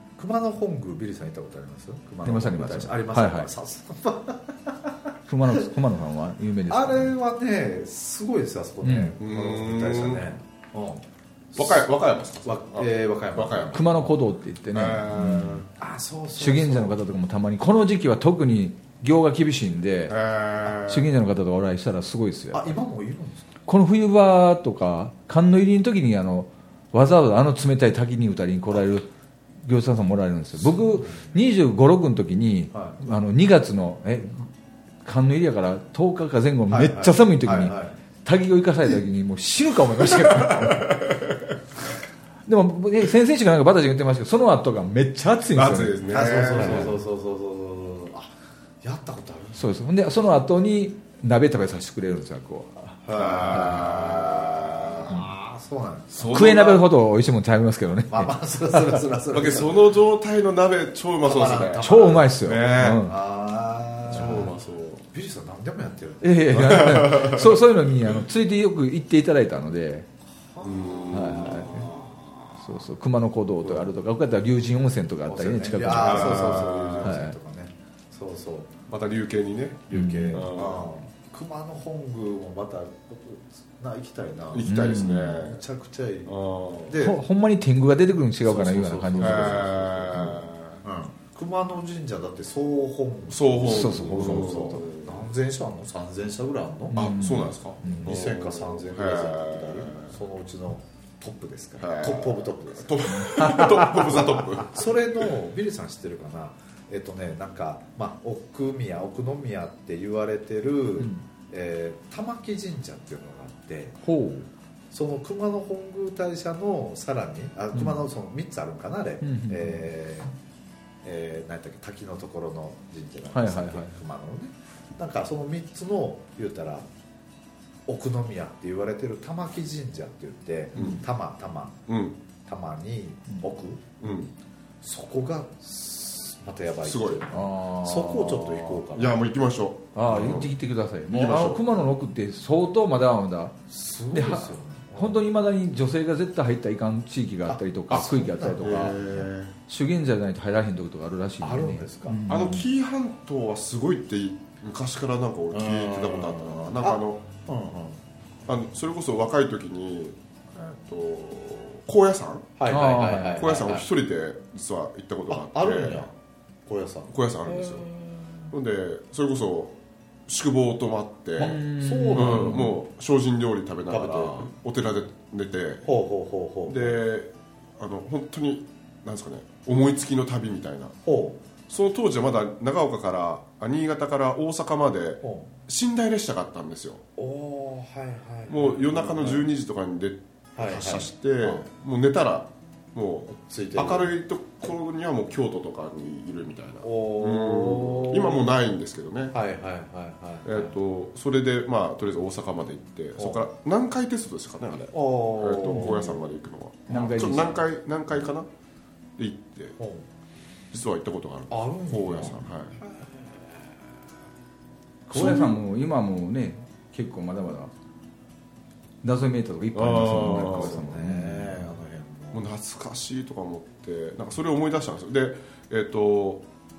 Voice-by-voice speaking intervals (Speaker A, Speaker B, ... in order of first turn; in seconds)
Speaker A: 0.2-5.1, 6.7-11.9, 12.4-13.8, 15.8-17.0, 22.5-23.5, 30.9-31.3, 32.7-33.0, 36.7-38.0, 46.1-48.3, 48.8-49.7, 53.1-56.5, 58.1-59.9, 61.2-62.4, 62.9-64.5, 65.1-66.8, 70.5-72.5, 75.3-78.7, 79.9-86.3, 86.9-87.2, 88.4-97.0, 97.8-114.0, 114.9-120.3, 121.0-126.9, 127.9-131.8, 132.5-133.9, 134.8-139.2, 143.7-145.2, 147.5-149.3, 151.4-152.2, 155.5-158.0, 162.6-163.9, 165.3-166.2, 166.7-168.5, 171.4-172.7, 173.9-174.5, 175.8-177.0, 181.1-181.4, 185.2-185.5, 187.2-189.5, 190.6-191.7, 193.3-194.2, 196.8-198.5, 199.3-200.8, 203.2-203.4, 204.9-206.3, 209.8-210.1, 211.5-213.5, 220.1-222.5
Speaker B: 2.2-3.5, 5.3-7.1, 8.8-9.2, 13.7-15.7, 16.4-20.2, 20.7-22.8, 23.7-29.1, 29.6-34.5, 35.0-41.0, 42.5-47.0, 49.6-53.8, 56.2-59.0, 61.8-63.2, 64.2-64.5, 66.2-70.1, 71.1-71.9, 72.6-77.4, 79.9-80.5, 84.7-85.5, 87.0-90.4, 93.6-94.8, 96.9-98.2, 103.1-104.0, 114.0-114.5, 117.7-118.1, 119.2-119.9, 123.3-124.0, 130.8-131.0, 137.3-138.5, 139.9-143.6, 144.1-149.0, 149.7-152.7, 162.7-163.5, 171.4-172.8, 206.9-207.7, 215.1-217.7, 219.0-221.7
Speaker C: 9.2-10.3, 11.6-14.2, 14.7-15.7, 20.1-21.1, 40.1-41.4, 45.5-47.0, 53.1-55.2, 56.1-56.9, 59.3-61.9, 62.4-63.1, 64.1-65.1, 66.5-67.6, 70.6-71.9, 75.9-77.2, 78.9-80.9, 84.5-85.6, 86.3-87.0, 89.2-90.8, 93.3-95.3, 96.9-100.2, 101.8-104.9, 130.8-131.0, 131.9-132.2, 134.0-134.3, 136.8-137.3, 138.3-140.6, 141.1-141.7, 148.6-149.6, 152.3-157.2, 158.5-162.5, 163.3-166.1, 167.1-167.9, 168.5-171.6, 172.1-175.9, 176.7-180.9, 181.7-187.0, 188.5-199.4, 200.4-208.5, 209.2-209.8, 210.7-212.8, 215.1-215.6, 219.7-220.8, 222.3-226.5